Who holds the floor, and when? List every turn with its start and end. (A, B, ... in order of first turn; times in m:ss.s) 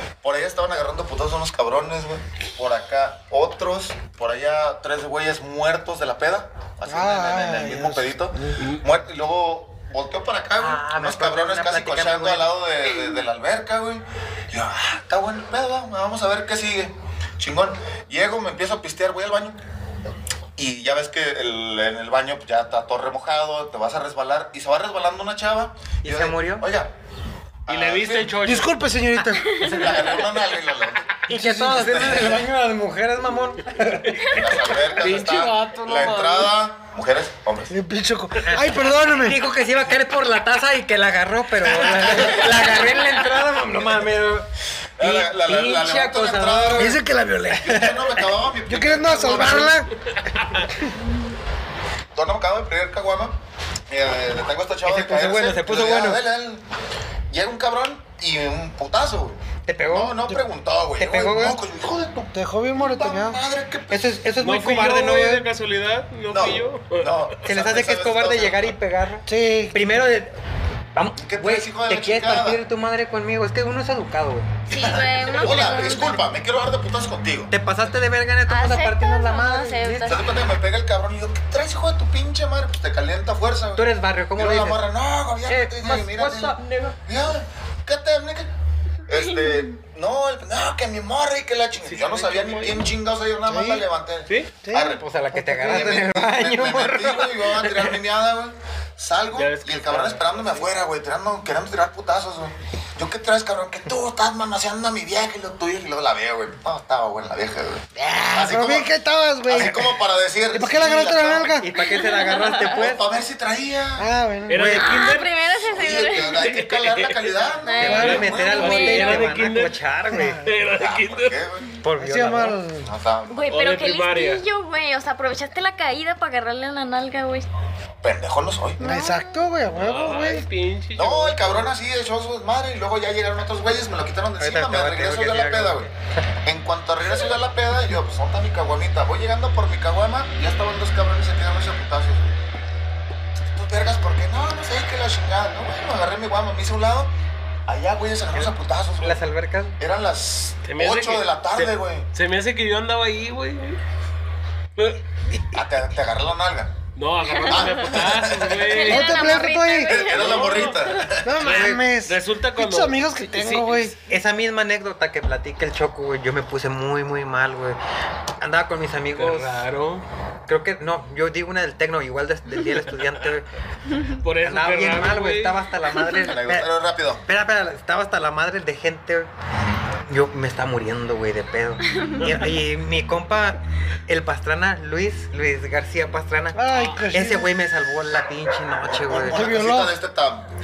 0:00.2-0:19.6 A
0:06.9-0:08.6 B
0:10.6-0:12.5 C
0:20.6-0:26.9 A
0:26.0-0:26.7 C
0:27.6-0:28.4 A
0:27.7-0:28.8 D
0:28.4-0:29.7 B
0:29.4-0:29.8 E
0:29.4-0:30.2 C
0:29.5-0:31.1 A
0:31.3-0:34.3 C
0:31.3-0:32.1 B
0:31.7-0:32.4 A
0:34.0-0:36.5 D
0:34.2-0:37.7 A
0:37.7-0:39.4 B
0:38.5-0:44.5 C
0:41.8-0:42.6 A
0:45.0-0:47.0 C
0:45.0-0:47.0 A
0:46.8-0:47.7 B
0:47.5-0:49.9 A
0:47.6-0:48.3 C
0:48.7-0:49.9 B
0:50.2-0:50.6 D
0:52.1-0:53.4 A
0:53.9-0:56.6 A
0:54.8-0:56.2 C
0:57.3-1:04.1 A
0:59.7-1:00.2 C
1:01.0-1:01.6 C
1:02.3-1:03.4 B
1:03.9-1:05.5 C
1:04.4-1:07.3 D
1:06.3-1:08.7 A
1:07.4-1:10.3 C
1:09.3-1:09.8 B
1:10.9-1:14.6 C
1:11.2-1:12.6 A
1:14.7-1:16.2 E
1:14.7-1:17.5 A
1:17.5-1:20.2 C
1:18.5-1:20.3 E
1:20.0-1:28.5 A
1:23.8-1:24.9 C
1:25.4-1:27.0 C
1:29.1-1:35.0 A
1:31.8-1:32.9 D
1:33.5-1:33.8 B
1:34.3-1:34.5 D
1:34.6-1:36.0 B
1:34.8-1:37.6 C
1:35.6-1:48.9 A
1:39.3-1:40.7 D
1:48.0-1:49.9 B
1:49.4-1:51.6 A
1:50.5-1:51.7 B
1:51.6-1:53.0 C
1:51.9-1:52.7 E
1:52.4-1:54.1 A
1:54.0-1:54.7 B
1:54.5-1:55.3 D
1:54.5-1:54.9 C
1:54.7-1:56.4 E
1:55.6-1:59.2 A
1:56.2-1:59.8 D
1:57.6-1:59.3 E
1:57.8-2:00.4 C
2:00.1-2:00.4 B
2:00.4-2:01.4 D
2:00.6-2:01.8 A
2:01.8-2:02.6 C
2:02.0-2:02.9 B
2:02.8-2:03.4 A
2:03.3-2:07.5 E
2:03.5-2:04.4 D
2:08.0-2:08.8 A
2:08.8-2:10.4 B
2:08.8-2:09.4 E
2:09.7-2:11.6 D
2:11.0-2:15.9 A
2:14.4-2:15.9 C
2:16.4-2:22.4 A
2:23.5-2:27.1 A
2:27.7-2:29.2 A
2:28.3-2:29.8 C
2:29.8-2:32.1 A
2:30.6-2:33.8 D
2:34.8-2:35.0 D
2:35.5-2:36.7 A
2:37.0-2:39.4 D
2:37.3-2:37.8 E
2:37.4-2:38.8 A
2:38.7-2:40.8 E
2:38.8-2:39.9 B
2:39.8-2:41.4 A
2:40.0-2:40.8 D
2:41.2-2:43.9 B
2:41.4-2:43.9 D
2:41.5-2:41.8 C
2:44.0-2:47.8 C
2:48.4-2:49.7 C
2:49.1-2:50.0 D
2:50.5-2:53.4 C
2:54.1-2:55.7 D
2:54.4-2:56.7 C
2:56.2-2:57.2 A
2:57.2-2:59.3 C
3:00.0-3:09.4 C
3:01.9-3:02.2 E
3:02.2-3:02.4 D
3:06.5-3:07.5 B
3:06.7-3:07.1 D
3:08.9-3:10.5 A
3:09.3-3:09.9 B